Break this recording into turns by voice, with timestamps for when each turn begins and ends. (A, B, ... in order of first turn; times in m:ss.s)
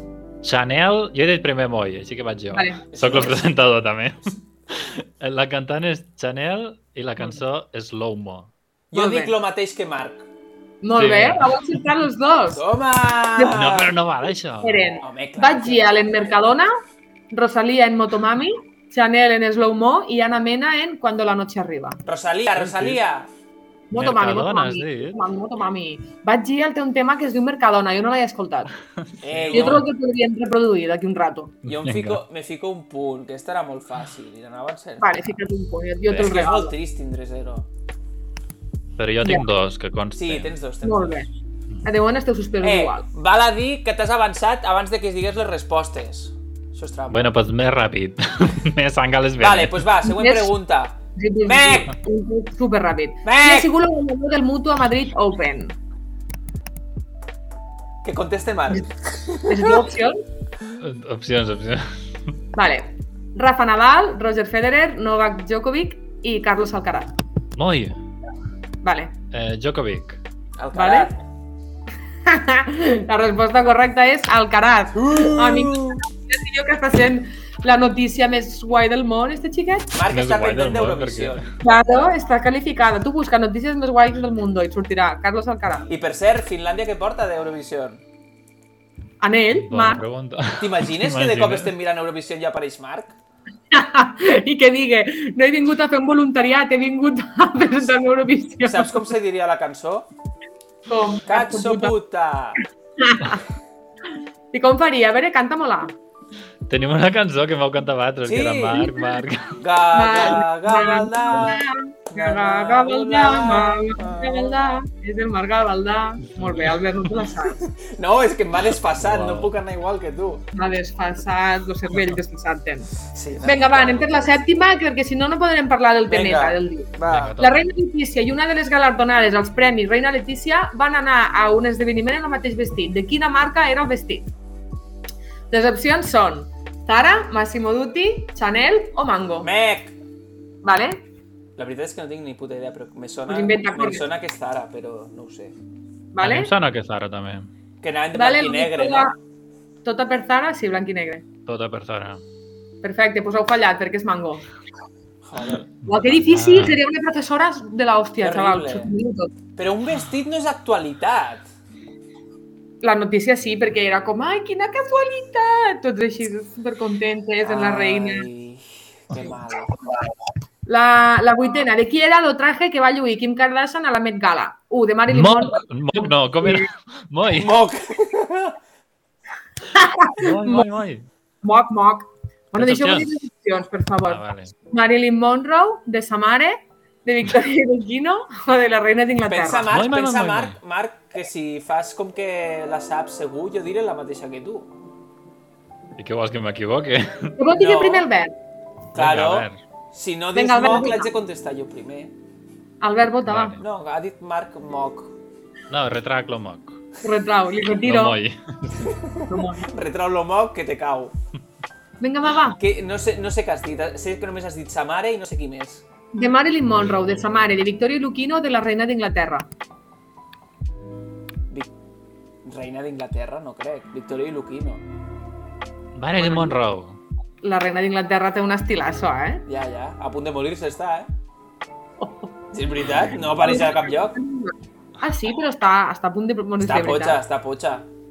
0:00.4-0:08.5 A
0:02.5-0:02.8 B
0:02.9-0:03.5 C
0:08.9-0:10.3 C
0:08.9-0:09.3 B
0:10.8-0:12.6 B
0:10.9-0:11.8 A
0:12.5-0:14.0 C
0:13.5-0:14.9 A
0:14.6-0:16.7 B
0:15.0-0:16.4 C
0:17.3-0:22.0 B
0:22.0-0:23.3 C
0:22.6-0:23.0 A
0:23.9-0:28.7 B
0:23.9-0:25.2 A
0:29.1-0:29.8 A
0:29.2-0:29.8 C
0:29.5-0:31.6 B
0:31.6-0:32.2 A
0:31.6-0:35.2 C
0:35.0-0:36.7 B
0:36.1-0:37.7 C
0:39.0-0:40.5 A
0:40.1-0:41.2 C
0:40.8-0:41.3 B
0:41.8-0:43.0 B
0:42.6-0:47.3 C
0:47.1-0:49.9 A
0:49.4-0:52.0 C
0:50.0-0:50.5 B
0:51.1-0:55.8 B
0:53.2-0:53.7 C
0:58.0-0:59.9 C
0:59.4-1:00.2 B
1:00.8-1:01.9 A
1:02.5-1:07.2 B
1:07.6-1:08.0 A
1:08.8-1:09.1 B
1:09.3-1:10.2 A
1:10.6-1:11.2 C
1:10.7-1:11.1 B
1:12.2-1:19.9 B
1:14.9-1:16.0 C
1:19.9-1:21.5 C
1:20.1-1:21.5 A
1:21.6-1:25.9 B
1:25.9-1:28.0 C
1:29.2-1:30.0 B
1:29.5-1:31.7 A
1:30.6-1:33.2 C
1:33.7-1:39.1 B
1:38.6-1:40.1 C
1:40.9-1:41.9 B
1:41.2-1:42.6 C
1:43.0-1:43.4 B
1:44.5-1:46.0 B
1:46.7-1:49.6 A
1:48.2-1:48.9 C
1:49.6-1:54.8 C
1:49.9-1:57.7 B
1:56.4-1:56.8 A
1:57.6-2:00.4 C
1:59.0-1:59.5 A
2:00.5-2:14.3 B
2:03.0-2:04.4 C
2:06.1-2:07.4 C
2:07.0-2:07.6 A
2:15.5-2:19.5 B
2:19.4-2:20.0 C
2:20.6-2:21.0 B
2:21.6-2:25.6 C
2:23.3-2:24.0 B
2:26.1-2:26.5 B
2:26.2-2:27.5 A
2:27.8-2:29.1 C
2:28.1-2:29.1 B
2:29.8-2:31.2 B
2:31.4-2:32.2 A
2:32.8-2:34.4 B
2:35.2-2:35.7 C
2:35.8-2:39.3 B
2:36.2-2:36.8 A
2:38.2-2:38.9 C
2:39.6-2:41.5 C
2:42.8-2:48.3 B
2:47.4-2:49.8 C
2:50.7-2:56.7 B
2:55.1-2:57.5 A
2:57.3-2:58.6 C
2:59.7-3:00.7 B
3:00.1-3:01.0 A
3:01.4-3:09.7 B
3:02.6-3:03.1 A
3:04.0-3:04.5 A
3:09.2-3:14.7 C
3:09.7-3:10.6 A
3:16.0-3:17.4 A
3:17.4-3:18.3 B
3:17.5-3:18.1 C
3:18.9-3:19.6 A
3:18.9-3:22.1 C
3:20.3-3:21.1 B
3:22.8-3:23.6 B
3:23.2-3:23.6 A
3:23.6-3:25.1 C
3:25.7-3:26.8 A
3:27.0-3:28.2 B
3:27.8-3:29.0 A
3:28.8-3:31.1 C
3:29.3-3:29.7 B
3:32.0-3:32.6 B
3:32.6-3:35.8 C
3:36.1-3:39.5 B
3:42.4-3:44.8 C
3:45.9-3:47.0 A
3:46.2-3:46.5 C
3:47.4-3:49.4 B
3:49.4-3:51.1 C
3:52.0-3:52.3 B
3:52.5-3:54.2 C
3:53.3-3:57.2 B
3:56.6-3:57.9 C